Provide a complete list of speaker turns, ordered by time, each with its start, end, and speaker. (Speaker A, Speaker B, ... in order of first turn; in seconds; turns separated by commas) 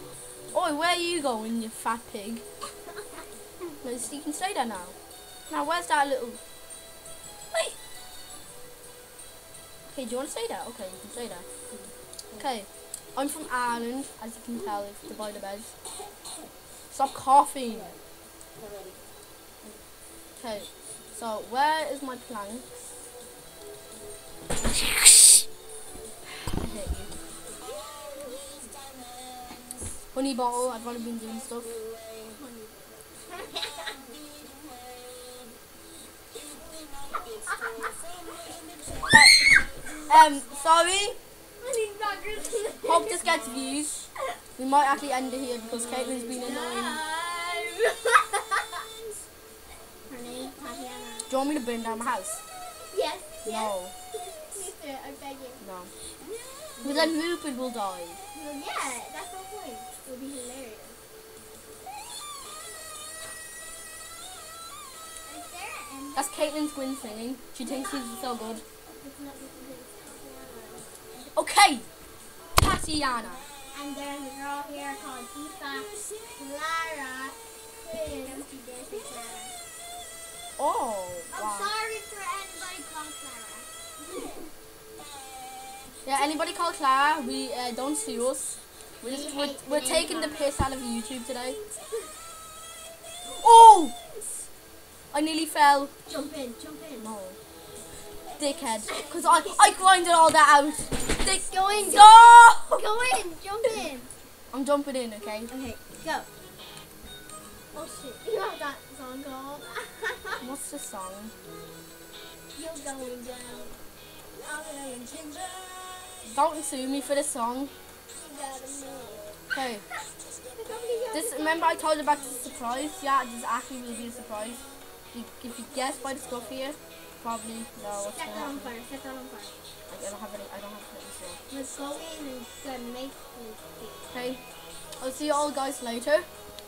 Speaker A: 0.5-2.4, Speaker A: 3.8-5.0, Speaker A: 5.5-6.4, Speaker A: 9.8-11.5, Speaker A: 12.4-15.7, Speaker A: 16.9-18.0, Speaker A: 20.4-22.7, Speaker A: 26.5-27.1, Speaker A: 30.1-31.8, Speaker B: 32.3-34.1, Speaker B: 37.3-37.9, Speaker A: 39.1-39.5, Speaker A: 40.1-41.2, Speaker B: 41.6-43.4, Speaker A: 42.8-44.1, Speaker A: 44.6-47.0, Speaker B: 45.8-48.9, Speaker B: 50.1-51.3, Speaker A: 51.3-52.4, Speaker B: 52.9-55.6, Speaker A: 53.5-53.9, Speaker A: 55.6-55.9, Speaker A: 56.8-58.2, Speaker B: 58.3-61.0, Speaker B: 65.2-66.5, Speaker A: 66.2-68.6, Speaker B: 67.6-68.3, Speaker B: 68.9-70.9, Speaker A: 71.3-71.9, Speaker A: 72.6-73.5, Speaker B: 73.7-79.5, Speaker A: 80.6-81.7, Speaker B: 81.3-84.5, Speaker A: 86.0-91.6, Speaker B: 89.0-90.5, Speaker A: 93.3-93.9, Speaker A: 95.1-95.9, Speaker B: 96.1-97.0, Speaker A: 97.0-97.4, Speaker A: 98.4-102.8, Speaker B: 98.8-100.1, Speaker B: 101.1-104.1, Speaker A: 104.5-105.5, Speaker B: 105.5-106.3, Speaker B: 107.7-110.4, Speaker A: 110.4-111.3, Speaker B: 112.5-113.8, Speaker B: 114.3-116.2, Speaker A: 116.3-117.7, Speaker B: 118.1-119.3, Speaker A: 119.5-119.8, Speaker B: 120.5-122.2, Speaker A: 121.1-124.6, Speaker A: 125.1-128.7, Speaker B: 128.1-129.6, Speaker A: 129.9-131.4, Speaker B: 131.5-134.3, Speaker A: 134.1-134.4, Speaker A: 135.0-136.3